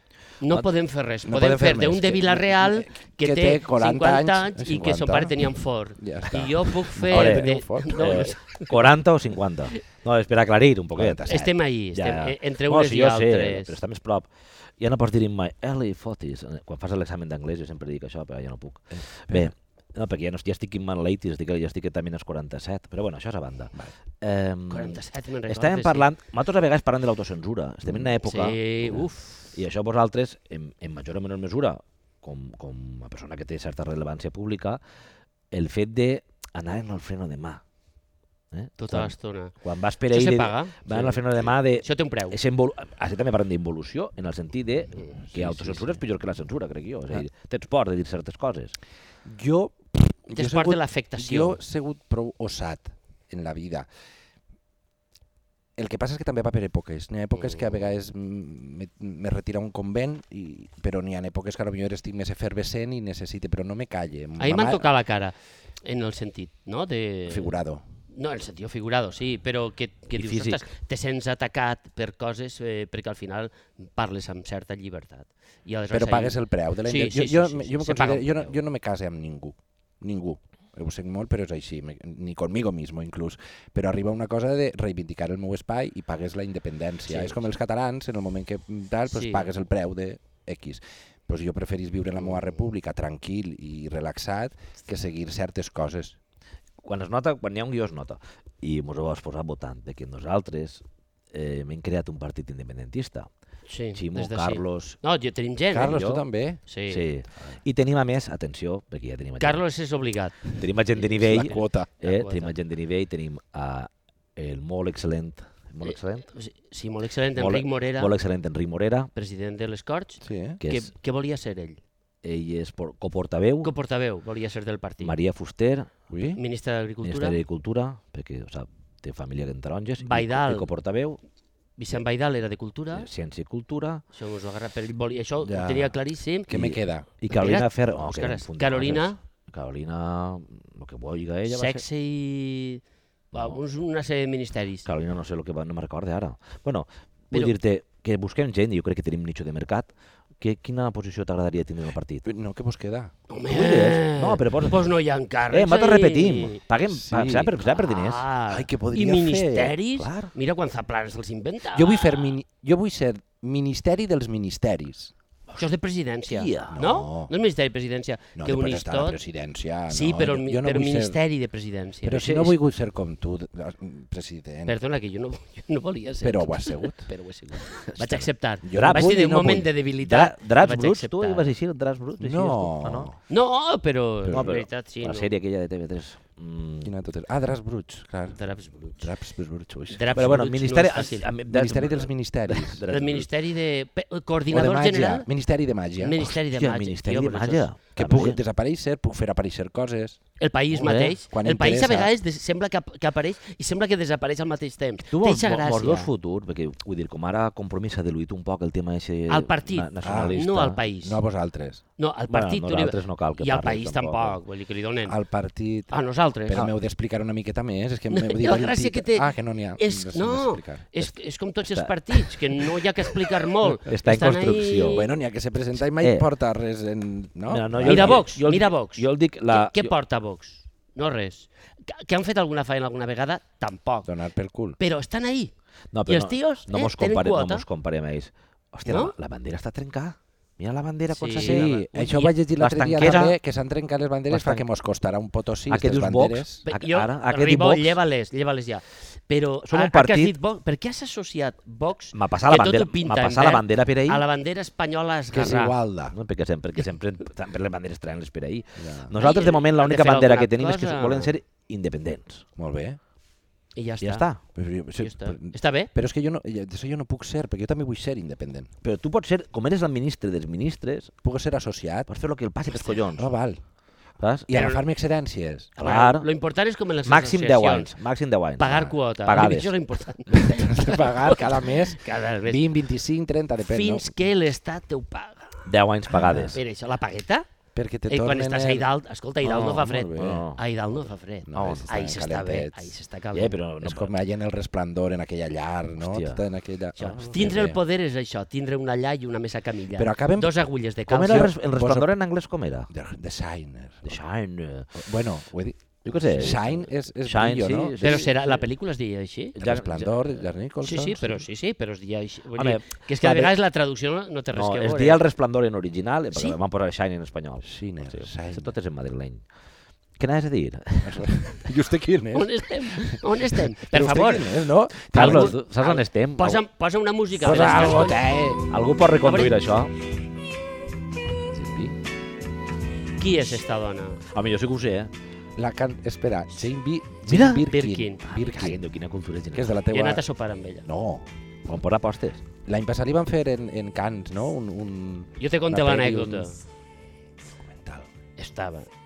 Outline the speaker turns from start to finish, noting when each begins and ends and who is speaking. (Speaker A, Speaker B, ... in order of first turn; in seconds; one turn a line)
Speaker A: 0.4-8.8
Speaker B: 1.2-5.4
Speaker B: 6.0-8.3
Speaker C: 7.1-29.0
Speaker B: 10.9-11.5
Speaker A: 11.2-13.8
Speaker B: 18.9-19.5
Speaker A: 24.7-26.1
Speaker B: 27.9-28.1
Speaker A: 28.2-29.4
Speaker C: 29.5-34.8
Speaker C: 35.5-37.6
Speaker C: 38.5-48.7
Speaker A: 38.8-39.5
Speaker A: 40.1-42.4
Speaker B: 45.3-46.0
Speaker B: 49.2-53.9
Speaker A: 50.3-51.6
Speaker B: 55.8-64.9
Speaker A: 57.3-57.8
Speaker A: 64.4-67.5
Speaker B: 67.3-67.8
Speaker A: 68.1-78.5
Speaker C: 70.1-70.6
Speaker B: 75.9-96.2
Speaker A: 87.1-87.4
Speaker A: 89.1-89.5
Speaker A: 92.2-92.5
Speaker C: 96.8-103.3
Speaker A: 103.7-106.1
Speaker C: 103.9-105.0
Speaker B: 105.7-106.6
Speaker C: 105.8-106.2
Speaker A: 106.7-107.1
Speaker C: 106.9-109.6
Speaker A: 109.4-112.5
Speaker C: 110.6-116.3
Speaker B: 111.2-111.9
Speaker A: 115.8-118.1
Speaker C: 117.3-119.1
Speaker A: 119.1-121.8
Speaker B: 120.2-120.6
Speaker C: 120.6-120.9
Speaker C: 122.2-123.7
Speaker A: 123.6-125.2
Speaker C: 125.0-125.9
Speaker B: 126.1-126.4
Speaker A: 126.3-127.4
Speaker C: 127.0-131.2
Speaker A: 130.0-130.7
Speaker A: 131.8-133.1
Speaker C: 132.9-134.0
Speaker A: 134.1-139.2
Speaker B: 135.4-137.1
Speaker C: 136.5-141.8
Speaker A: 141.5-142.8
Speaker C: 143.3-143.6
Speaker A: 143.3-144.9
Speaker C: 144.8-152.3
Speaker B: 152.2-153.1
Speaker A: 153.3-156.6
Speaker C: 153.5-154.9
Speaker C: 155.5-158.2
Speaker B: 156.9-157.5
Speaker A: 157.6-162.3
Speaker B: 158.5-159.7
Speaker C: 159.9-160.3
Speaker B: 161.7-165.1
Speaker A: 165.6-169.2
Speaker C: 166.3-166.8
Speaker B: 166.7-167.3
Speaker B: 168.4-171.2
Speaker A: 169.9-172.5
Speaker B: 172.0-174.8
Speaker A: 174.7-181.5
Speaker B: 176.2-177.1
Speaker C: 177.8-179.1
Speaker B: 178.6-179.7
Speaker C: 180.0-183.1
Speaker B: 182.2-183.2
Speaker A: 183.3-185.3
Speaker C: 184.3-186.9
Speaker B: 186.8-188.4
Speaker A: 188.3-189.1
Speaker B: 189.0-190.1
Speaker A: 189.9-191.3
Speaker C: 190.1-193.3
Speaker B: 191.5-192.8
Speaker A: 192.9-195.3
Speaker B: 194.5-196.2
Speaker A: 196.0-197.7
Speaker C: 196.2-198.4
Speaker B: 197.9-200.2
Speaker A: 200.4-206.1
Speaker C: 200.7-201.2
Speaker B: 201.3-202.1
Speaker C: 205.1-210.8
Speaker A: 209.3-211.2
Speaker B: 210.0-210.4
Speaker B: 211.0-211.8
Speaker A: 212.0-215.2
Speaker C: 212.3-214.4
Speaker B: 215.1-215.9
Speaker A: 215.9-216.7
Speaker B: 216.5-220.9
Speaker A: 218.1-225.1
Speaker C: 221.7-222.6
Speaker C: 223.8-225.0
Speaker B: 224.9-228.2
Speaker C: 226.0-226.2
Speaker C: 227.5-229.9
Speaker A: 227.8-234.1
Speaker B: 234.1-234.8
Speaker A: 234.8-235.5
Speaker C: 235.9-241.8
Speaker A: 236.1-237.7
Speaker A: 238.9-239.1
Speaker A: 241.1-242.3
Speaker B: 241.4-246.6
Speaker C: 242.5-243.4
Speaker C: 244.3-244.6
Speaker C: 245.7-248.0
Speaker A: 246.6-255.8
Speaker C: 249.6-250.3
Speaker C: 252.1-254.2
Speaker B: 255.3-256.1
Speaker C: 256.1-262.4
Speaker B: 258.8-259.1
Speaker A: 259.2-261.3
Speaker B: 262.6-263.0
Speaker A: 263.7-264.3
Speaker C: 264.0-264.4
Speaker B: 264.5-268.7
Speaker A: 265.0-265.9
Speaker C: 268.8-271.1
Speaker B: 271.2-272.1
Speaker C: 272.1-273.3
Speaker B: 273.1-273.6
Speaker C: 274.2-274.5
Speaker B: 274.5-275.7
Speaker A: 274.5-274.8
Speaker C: 275.8-276.3
Speaker A: 275.8-277.9
Speaker C: 277.0-279.7
Speaker A: 278.6-282.7
Speaker B: 280.3-284.1
Speaker A: 283.6-285.7
Speaker C: 285.6-286.6
Speaker B: 286.1-286.6
Speaker A: 286.5-287.5
Speaker B: 287.7-288.9
Speaker A: 288.1-293.6
Speaker B: 289.4-290.4
Speaker C: 289.4-290.6
Speaker B: 291.4-292.9
Speaker C: 291.5-291.9
Speaker C: 293.3-294.1
Speaker B: 293.8-297.8
Speaker C: 296.0-296.4
Speaker A: 297.0-301.5
Speaker B: 299.9-300.5
Speaker C: 301.1-302.9
Speaker B: 301.2-302.1
Speaker B: 302.9-304.2
Speaker C: 304.0-304.9
Speaker B: 304.9-308.2
Speaker C: 306.0-308.6
Speaker A: 308.0-309.8
Speaker C: 309.6-310.1
Speaker B: 309.6-311.4
Speaker A: 310.8-315.2
Speaker C: 312.6-313.5
Speaker C: 314.5-319.4
Speaker B: 317.6-318.7
Speaker C: 320.2-321.2
Speaker B: 321.0-325.5
Speaker A: 322.3-328.2
Speaker C: 325.1-326.6
Speaker B: 327.4-328.6
Speaker C: 328.7-329.9
Speaker A: 329.2-329.6
Speaker B: 331.5-331.9
Speaker A: 333.2-334.2
Speaker C: 334.3-335.1
Speaker B: 335.6-338.8
Speaker C: 337.3-337.6
Speaker A: 337.6-338.4
Speaker C: 338.3-339.8
Speaker B: 339.5-340.2
Speaker A: 339.9-340.9
Speaker B: 340.8-341.3
Speaker C: 341.6-342.4
Speaker B: 342.6-346.6
Speaker A: 345.4-346.6
Speaker B: 347.7-348.1
Speaker A: 348.4-348.9